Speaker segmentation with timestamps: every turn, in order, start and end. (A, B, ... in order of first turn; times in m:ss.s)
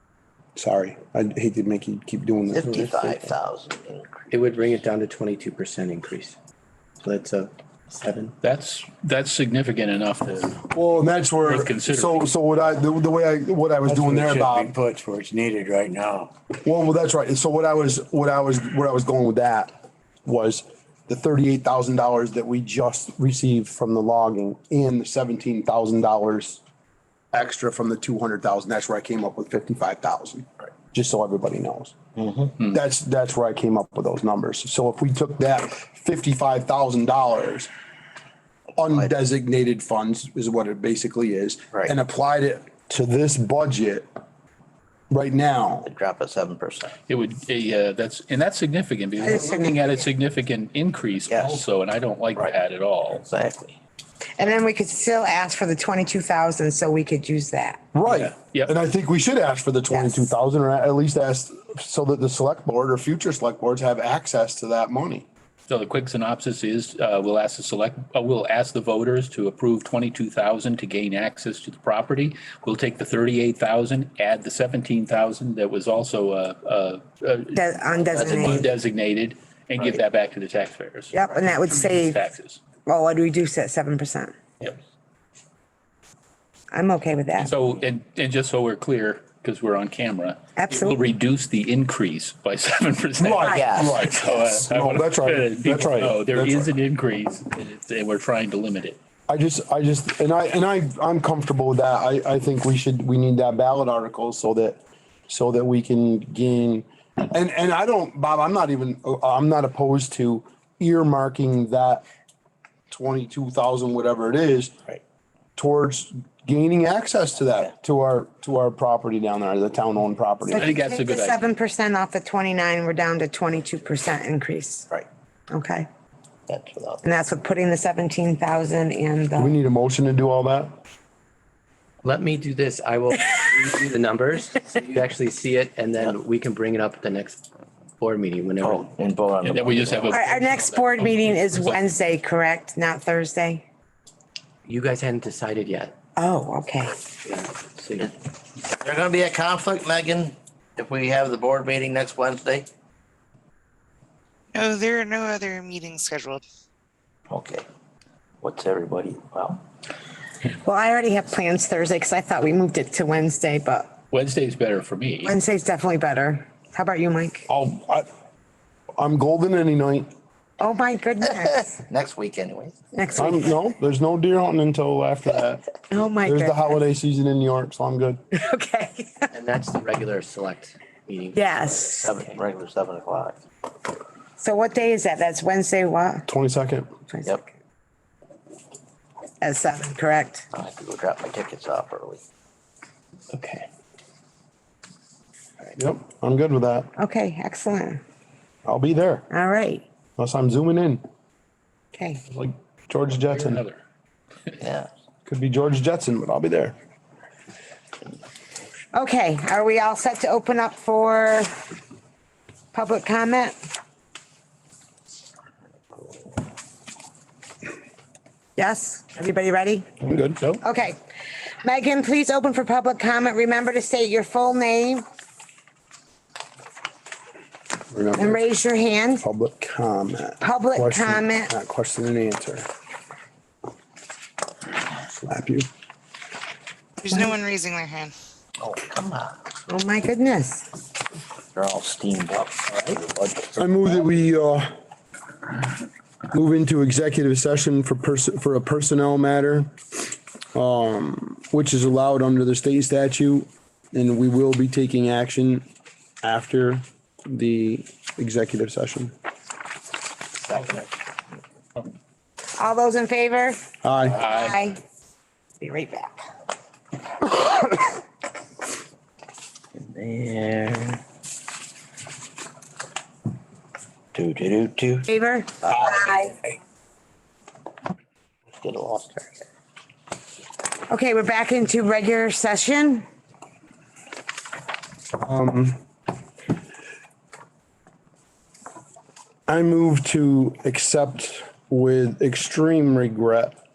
0:00.5-0:03.2 A
0:02.5-0:04.4 B
0:04.3-0:06.4 C
0:07.0-0:08.4 C
0:08.4-0:10.6 D
0:10.7-0:14.7 A
0:11.4-0:12.3 D
0:13.8-0:16.3 E
0:16.6-0:19.7 A
0:20.2-0:26.6 A
0:27.3-0:32.0 A
0:32.2-0:32.5 B
0:32.6-0:37.7 A
0:38.8-0:44.1 A
0:38.8-0:39.1 B
0:45.1-0:45.9 A
0:45.8-0:47.0 B
0:47.1-0:53.2 D
0:49.2-0:50.0 F
0:51.3-0:51.6 B
0:53.1-0:53.8 B
0:54.4-0:57.8 F
0:57.9-1:05.2 A
0:58.0-0:58.7 D
0:59.9-1:00.3 F
1:05.7-1:22.6 D
1:17.5-1:18.7 F
1:18.3-1:18.6 B
1:21.1-1:22.2 F
1:22.8-1:24.3 F
1:26.7-1:27.5 F
1:27.4-1:39.0 D
1:30.6-1:31.0 F
1:33.2-1:36.7 A
1:33.5-1:34.2 B
1:39.3-1:52.0 A
1:52.9-1:54.8 A
1:55.6-2:00.8 A
2:00.5-2:04.9 F
2:00.5-2:01.4 D
2:05.5-2:05.9 F
2:06.5-2:07.0 B
2:07.0-2:09.6 F
2:09.4-2:10.8 A
2:12.0-2:17.4 C
2:18.0-2:18.9 C
2:18.6-2:20.2 B
2:19.4-2:21.8 D
2:20.1-2:23.6 F
2:24.6-2:25.9 C
2:26.2-2:27.0 F
2:27.2-2:28.1 C
2:28.0-2:32.7 B
2:34.5-2:36.4 G
2:37.3-2:37.6 B
2:38.4-2:39.6 B
2:40.6-2:44.0 F
2:44.1-2:45.4 D
2:45.2-2:47.5 F
2:47.5-2:48.1 A
2:49.0-2:50.1 A
2:50.6-2:51.8 F
2:51.6-2:52.8 B
2:52.9-2:53.6 F
2:53.2-2:55.6 A
2:55.9-2:56.8 F
2:56.2-2:58.2 A
2:58.3-2:59.3 F
2:59.3-3:02.3 C
3:01.3-3:02.1 F
3:02.0-3:03.4 B
3:04.4-3:06.3 F
3:06.3-3:06.9 A
3:07.1-3:07.4 F
3:09.4-3:10.5 F
3:10.5-3:12.2 B
3:13.3-3:13.6 D
3:15.7-3:16.9 A
3:17.0-3:18.0 F
3:18.6-3:19.3 A
3:19.3-3:19.8 F
3:20.2-3:21.0 A
3:21.9-3:22.2 F
3:22.3-3:23.6 A
3:23.2-3:23.8 D
3:24.6-3:24.9 B
3:25.2-3:26.8 A
3:28.9-3:31.5 F
3:32.7-3:33.6 F
3:38.6-3:39.9 F
3:40.0-3:40.4 A
3:40.6-3:41.0 F
3:41.6-3:45.0 F
3:47.9-3:48.4 A
3:48.1-3:49.2 F
3:49.2-3:52.7 A
3:50.4-3:51.5 F
3:55.0-3:55.7 A
3:57.0-3:58.1 G
3:58.6-3:59.4 B
3:59.7-4:00.7 F
4:01.5-4:04.0 B
4:03.6-4:04.7 A
4:06.3-4:09.7 A
4:10.5-4:15.7 A
4:16.2-4:19.1 A
4:20.5-4:20.8 B
4:22.6-4:23.6 F
4:23.8-4:24.3 A
4:24.1-4:24.6 D
4:24.2-4:24.8 F
4:25.6-4:26.3 F
4:29.8-4:31.0 B
4:34.1-4:35.1 B
4:35.1-4:36.3 F
4:35.6-4:36.1 B
4:38.6-4:39.4 B
4:40.9-4:43.0 F
4:45.2-4:45.8 A
4:49.5-4:53.6 A